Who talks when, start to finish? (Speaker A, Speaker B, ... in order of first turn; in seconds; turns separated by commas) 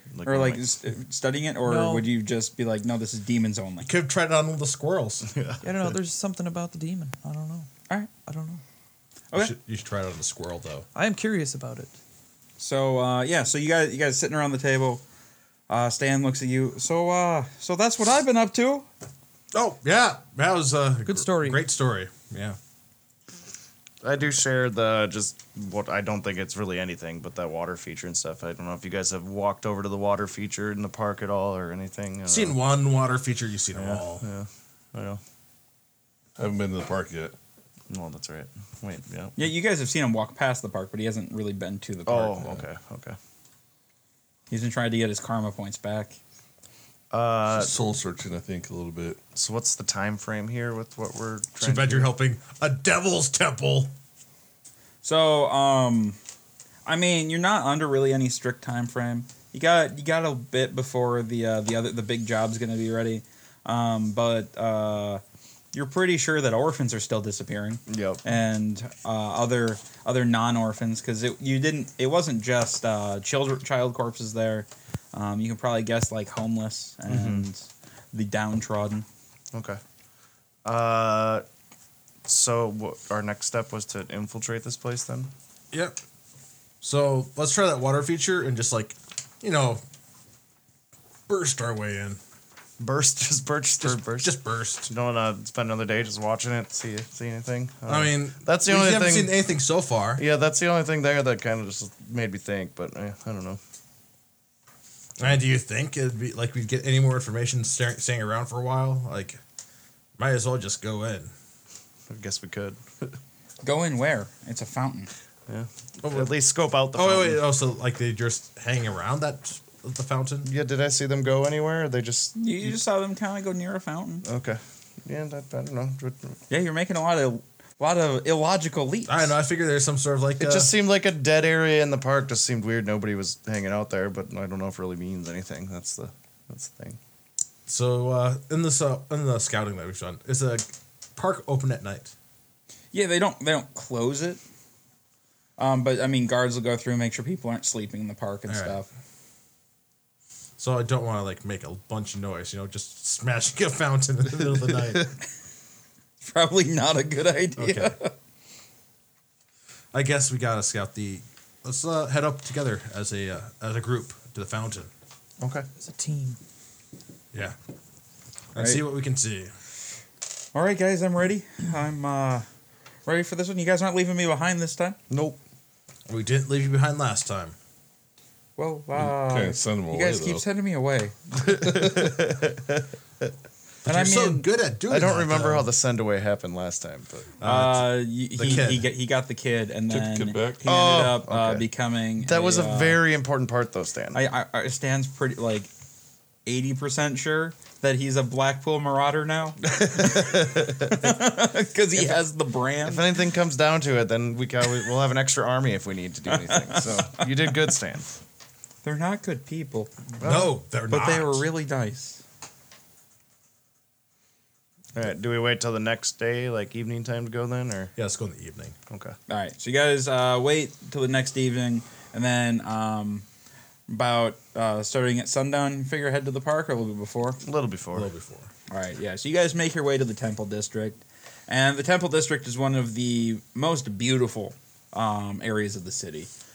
Speaker A: 0.1-0.7, Speaker B: 0.2-3.9, Speaker C: 1.6-2.1, Speaker D: 3.8-5.3, Speaker A: 5.2-5.9, Speaker C: 5.6-7.7, Speaker C: 8.2-8.6, Speaker D: 9.3-10.9, Speaker C: 10.9-12.0, Speaker B: 12.6-15.0, Speaker B: 15.7-18.9, Speaker D: 19.5-22.6, Speaker C: 21.1-21.6, Speaker A: 24.0-32.6, Speaker D: 32.3-34.2, Speaker A: 33.8-35.2, Speaker E: 36.4-37.4, Speaker A: 37.9-39.4, Speaker B: 39.4-42.6, Speaker A: 42.1-43.2, Speaker B: 44.5-46.2, Speaker A: 47.1-47.7, Speaker E: 47.5-49.2, Speaker A: 49.4-52.1, Speaker D: 51.6-53.9, Speaker B: 55.0-56.2, Speaker B: 56.9-65.2, Speaker B: 65.7-79.1, Speaker A: 67.9-68.2, Speaker A: 77.1-77.5, Speaker A: 79.5-79.8, Speaker A: 80.7-81.4, Speaker A: 82.2-85.3, Speaker D: 85.7-86.0, Speaker D: 86.8-89.8, Speaker D: 91.3-92.2, Speaker A: 92.8-99.3, Speaker D: 93.8-94.9, Speaker D: 97.9-100.2, Speaker A: 100.2-103.6, Speaker D: 105.2-109.4, Speaker D: 110.2-111.3, Speaker A: 112.1-113.2, Speaker B: 113.6-115.1, Speaker A: 115.5-117.4, Speaker D: 116.0-116.3, Speaker D: 116.9-120.5, Speaker A: 120.4-122.4, Speaker B: 122.3-124.2, Speaker A: 124.2-126.4, Speaker B: 126.5-129.3, Speaker D: 129.1-130.7, Speaker A: 130.4-137.0, Speaker D: 137.7-142.1, Speaker B: 142.9-144.4, Speaker B: 145.6-148.9, Speaker D: 148.5-148.8, Speaker D: 150.6-155.1, Speaker B: 156.2-158.1, Speaker D: 157.6-157.9, Speaker D: 159.9-164.9, Speaker A: 165.4-165.7, Speaker C: 165.8-166.4, Speaker D: 168.6-169.5, Speaker B: 168.6-168.8, Speaker B: 170.5-172.5, Speaker B: 173.1-175.0, Speaker A: 175.1-175.4, Speaker D: 176.1-177.6, Speaker B: 178.6-181.5, Speaker E: 179.0-180.4, Speaker A: 181.4-183.3, Speaker E: 181.7-182.1, Speaker D: 183.8-185.7, Speaker B: 183.9-184.5, Speaker A: 184.9-187.4, Speaker D: 187.4-188.9, Speaker B: 187.4-193.0, Speaker E: 189.9-190.7, Speaker A: 190.7-191.7, Speaker A: 192.2-194.2, Speaker B: 194.1-195.7, Speaker B: 196.5-203.1, Speaker A: 199.7-201.2, Speaker A: 202.8-208.2, Speaker B: 206.4-206.8, Speaker B: 208.8-212.2, Speaker A: 210.2-210.5, Speaker D: 210.2-211.5, Speaker A: 214.9-217.9, Speaker D: 218.0-218.8, Speaker A: 218.9-219.2, Speaker B: 219.3-223.2, Speaker B: 223.9-227.4, Speaker A: 227.4-228.1, Speaker D: 227.9-228.5, Speaker B: 228.7-236.3